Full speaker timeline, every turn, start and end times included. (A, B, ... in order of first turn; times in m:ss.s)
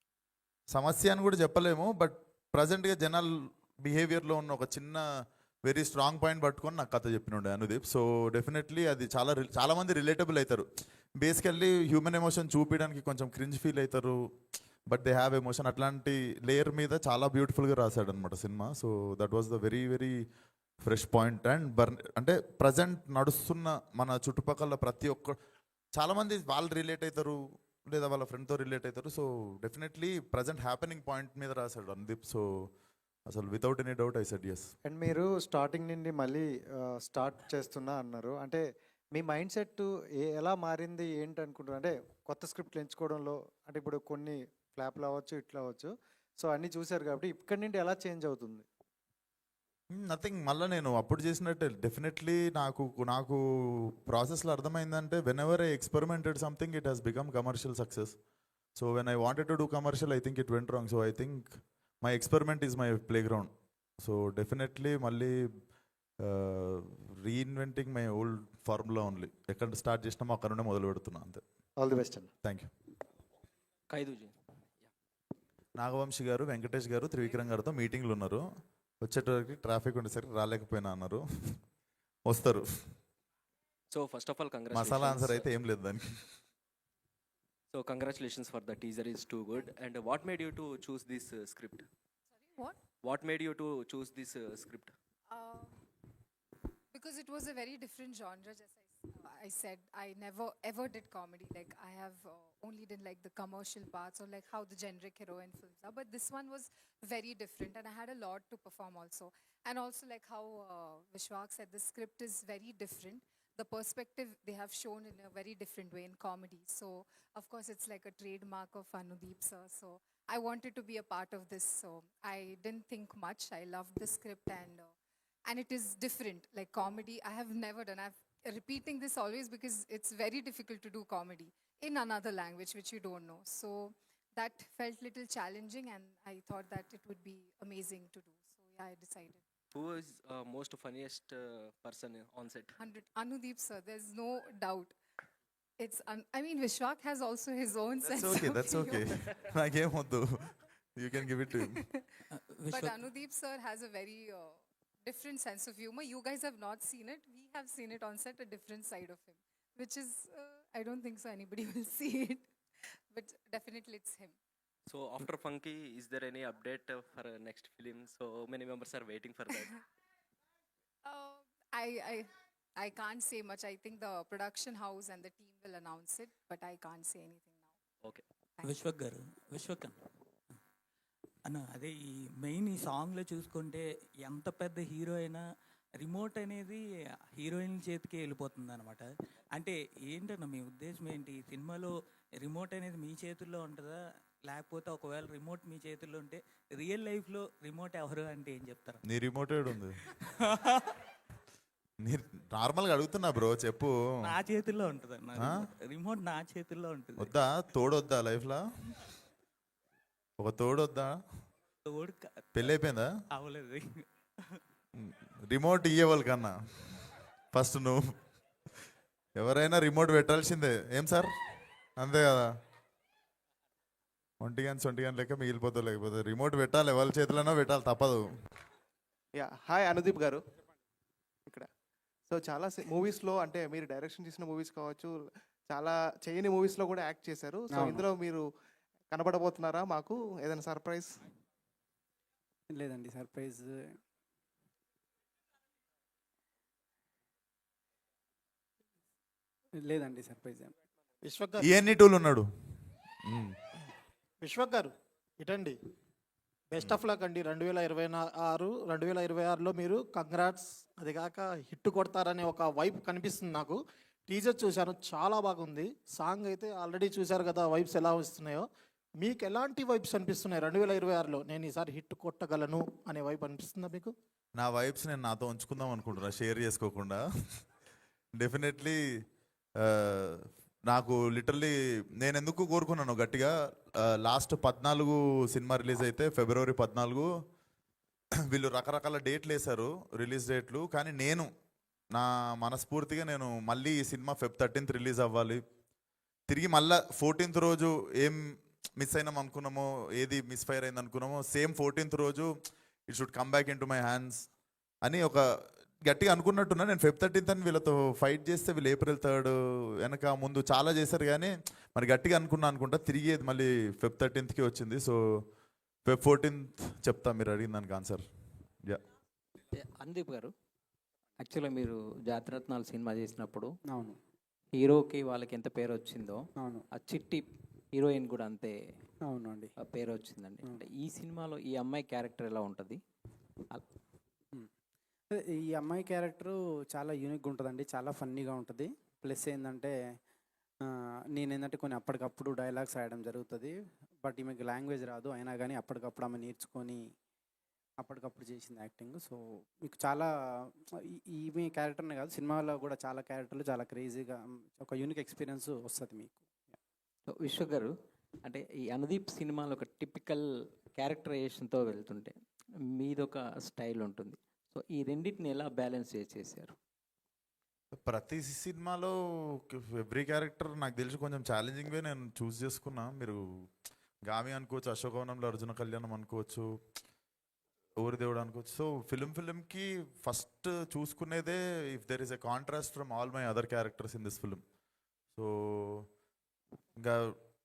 0:00.7-0:05.0 A
0:05.6-0:10.6 A
0:11.2-0:14.2 A
0:14.9-0:20.2 A
0:20.8-0:25.4 A
0:25.9-0:32.4 A
0:33.3-0:34.7 A
0:34.8-0:38.6 B
0:39.1-0:48.6 B
0:49.9-0:58.1 A
0:58.8-1:03.5 A
1:04.0-1:05.4 A
1:06.2-1:11.4 A
1:11.8-1:12.3 B
1:12.4-1:12.7 A
1:13.9-1:14.3 C
1:15.8-1:18.4 A
1:19.0-1:21.6 A
1:22.3-1:22.6 A
1:23.9-1:25.5 C
1:24.7-1:26.2 A
1:27.7-1:31.8 C
1:32.5-1:32.8 D
1:33.0-1:34.9 C
1:35.3-1:35.8 D
1:36.9-2:04.9 D
2:05.4-2:19.4 D
2:19.7-2:22.7 C
2:22.8-2:24.9 D
2:25.8-2:29.4 D
2:28.2-2:31.8 A
2:31.7-2:32.0 D
2:32.4-2:33.0 E
2:32.7-2:42.5 D
2:43.1-2:44.3 D
2:44.9-2:49.7 C
2:51.0-2:57.7 D
2:58.6-3:00.0 E
3:01.4-3:05.4 E
3:06.0-3:06.8 E
3:07.4-3:19.0 E
3:19.0-3:20.0 A
3:20.2-3:21.0 E
3:22.0-3:24.0 A
3:24.2-3:27.3 E
3:25.4-3:25.6 A
3:27.2-3:28.7 A
3:30.4-3:31.2 A
3:31.8-3:32.7 E
3:32.5-3:33.1 A
3:33.3-3:34.6 E
3:35.0-3:38.0 A
3:39.4-3:41.3 A
3:42.0-3:42.5 A
3:44.4-3:48.2 A
3:49.4-3:50.4 F
3:52.3-3:58.4 F
3:57.7-3:58.0 G
3:59.1-4:01.2 F
4:02.7-4:03.8 G
4:09.8-4:10.7 G
4:11.2-4:11.8 H
4:11.6-4:12.4 A
4:13.3-4:13.5 A
4:14.4-4:15.7 H
4:16.7-4:28.6 H
4:29.2-4:34.1 H
4:34.6-4:37.2 A
4:38.3-4:39.0 A
4:39.8-4:47.3 A
4:48.5-4:51.5 A
4:52.1-4:55.6 A
4:56.5-4:58.4 A
4:59.0-5:02.5 A
5:03.1-5:04.5 A
5:05.0-5:05.4 A
5:06.0-5:15.2 A
5:16.0-5:18.2 A
5:19.7-5:20.5 I
5:21.4-5:23.7 I
5:23.9-5:24.2 G
5:24.7-5:28.8 I
5:26.6-5:26.8 G
5:29.2-5:29.7 G
5:29.8-5:33.0 I
5:35.3-5:39.9 G
5:41.3-5:47.0 G
5:48.0-5:56.8 G
5:57.3-5:57.9 I
5:58.4-6:02.4 I
6:02.9-6:06.8 I
6:07.9-6:13.4 A
6:14.2-6:16.6 A
6:18.0-6:24.6 A
6:25.3-6:26.1 A
6:27.0-6:27.3 A